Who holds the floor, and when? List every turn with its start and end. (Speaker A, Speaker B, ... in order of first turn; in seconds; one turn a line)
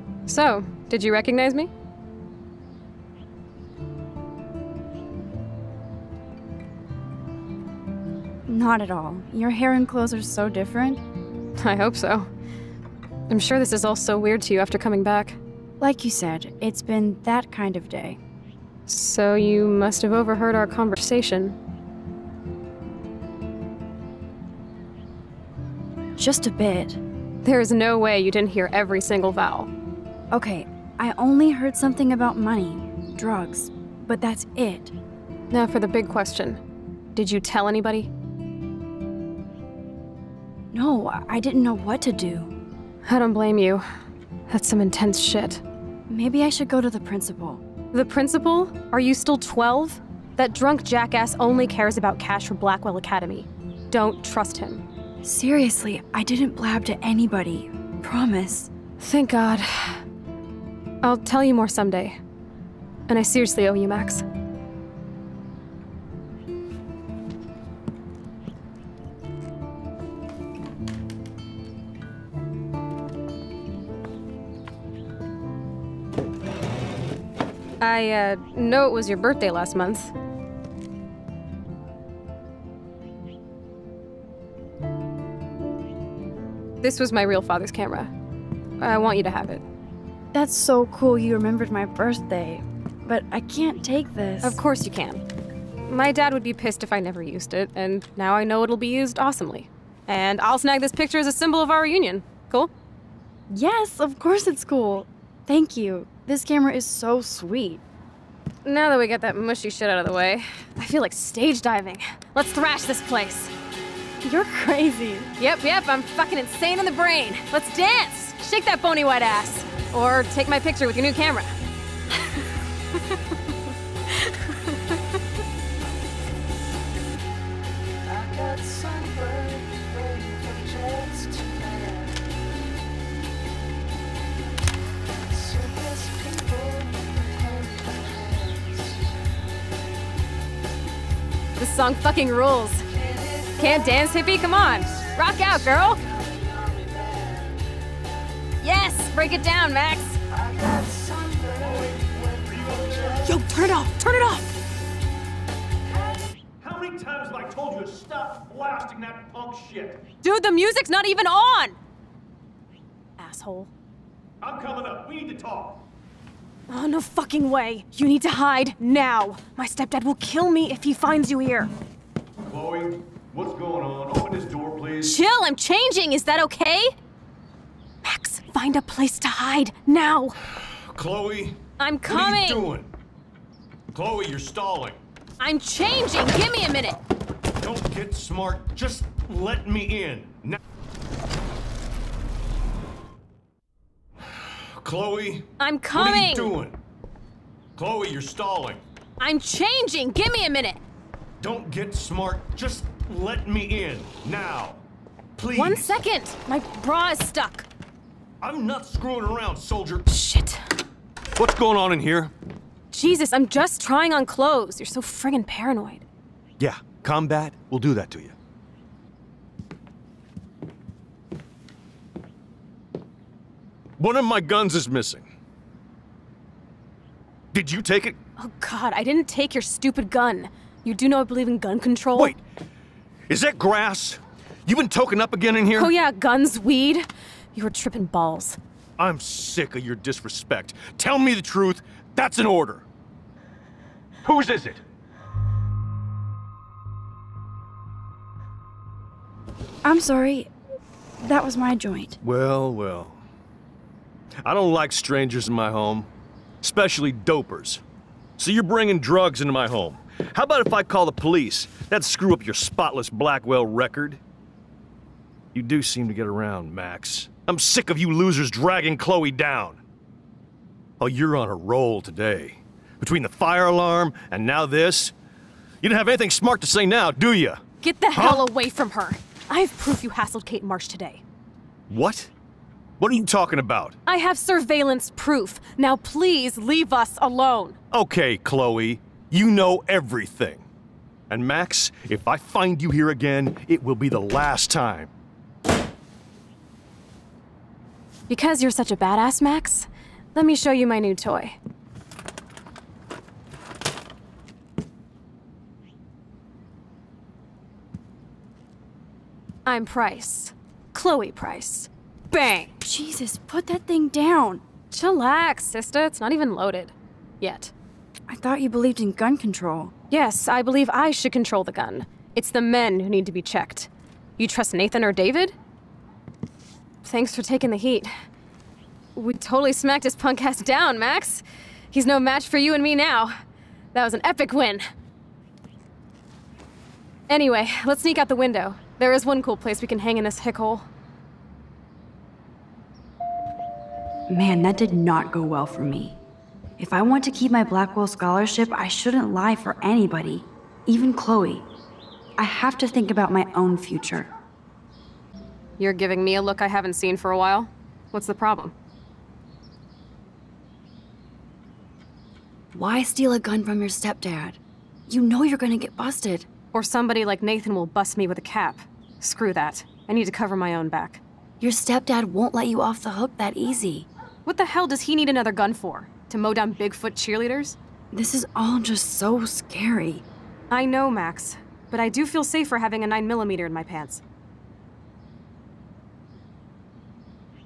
Speaker A: 0.2-1.7
Speaker B: 8.5-11.0
Speaker A: 11.6-12.3
Speaker A: 13.3-15.4
Speaker B: 15.8-18.2
Speaker A: 18.9-21.6
Speaker B: 26.2-27.0
Speaker A: 27.4-29.7
Speaker B: 30.3-34.9
Speaker A: 35.5-36.6
Speaker A: 37.1-38.1
Speaker B: 40.7-42.5
Speaker A: 43.0-43.8
Speaker A: 44.5-45.6
Speaker B: 46.1-47.6
Speaker A: 47.9-54.8
Speaker B: 55.2-58.7
Speaker A: 59.0-60.0
Speaker A: 61.0-62.2
Speaker A: 63.1-64.2
Speaker A: 77.8-80.1
Speaker A: 86.8-88.1
Speaker A: 88.8-89.6
Speaker B: 90.3-94.6
Speaker A: 94.4-95.2
Speaker A: 95.9-102.7
Speaker B: 103.5-107.8
Speaker A: 108.6-113.5
Speaker B: 114.2-115.3
Speaker A: 115.4-121.5
Speaker A: 141.6-142.8
Speaker A: 143.4-146.0
Speaker A: 148.6-150.2
Speaker C: 151.4-153.2
Speaker A: 153.2-154.5
Speaker C: 156.5-160.0
Speaker A: 160.2-161.8
Speaker A: 163.2-163.7
Speaker C: 164.4-165.8
Speaker A: 166.7-171.7
Speaker C: 172.5-175.2
Speaker A: 175.0-176.9
Speaker A: 178.0-180.3
Speaker C: 180.9-182.9
Speaker A: 181.8-182.7
Speaker C: 183.9-185.0
Speaker A: 185.4-187.0
Speaker C: 187.6-190.6
Speaker C: 194.8-196.8
Speaker A: 195.6-196.5
Speaker C: 197.8-198.8
Speaker A: 199.2-200.8
Speaker C: 201.4-204.8
Speaker C: 205.4-205.9
Speaker A: 205.6-207.7
Speaker C: 208.4-210.1
Speaker A: 210.1-210.6
Speaker C: 211.3-212.3
Speaker A: 212.9-216.0
Speaker C: 216.6-218.3
Speaker C: 224.0-225.3
Speaker C: 227.5-228.2
Speaker A: 228.4-232.3
Speaker C: 233.3-235.9
Speaker A: 235.7-238.6
Speaker C: 239.0-242.8
Speaker C: 244.2-244.8
Speaker B: 249.8-250.5
Speaker B: 251.2-252.2
Speaker C: 252.2-253.2
Speaker C: 254.4-256.1
Speaker C: 256.6-257.8
Speaker C: 258.4-264.2
Speaker C: 265.5-269.8
Speaker C: 271.0-275.1
Speaker C: 275.8-277.6
Speaker A: 277.8-281.2
Speaker C: 278.1-278.4
Speaker C: 281.9-282.3
Speaker C: 283.0-283.9
Speaker A: 284.1-287.8
Speaker C: 287.9-290.6
Speaker C: 291.3-295.1
Speaker A: 298.3-301.6
Speaker A: 309.6-312.7
Speaker B: 312.8-314.6
Speaker A: 314.9-317.7
Speaker B: 318.3-319.9
Speaker A: 320.1-325.5
Speaker A: 327.0-328.1
Speaker A: 329.1-333.3
Speaker A: 333.9-334.8
Speaker A: 337.3-340.9
Speaker B: 344.3-346.2
Speaker B: 346.8-351.7
Speaker B: 352.4-354.3
Speaker A: 355.8-358.7
Speaker B: 362.7-366.5
Speaker A: 366.7-371.2
Speaker B: 371.6-374.1
Speaker A: 374.4-377.8
Speaker B: 378.1-380.2
Speaker A: 380.7-384.2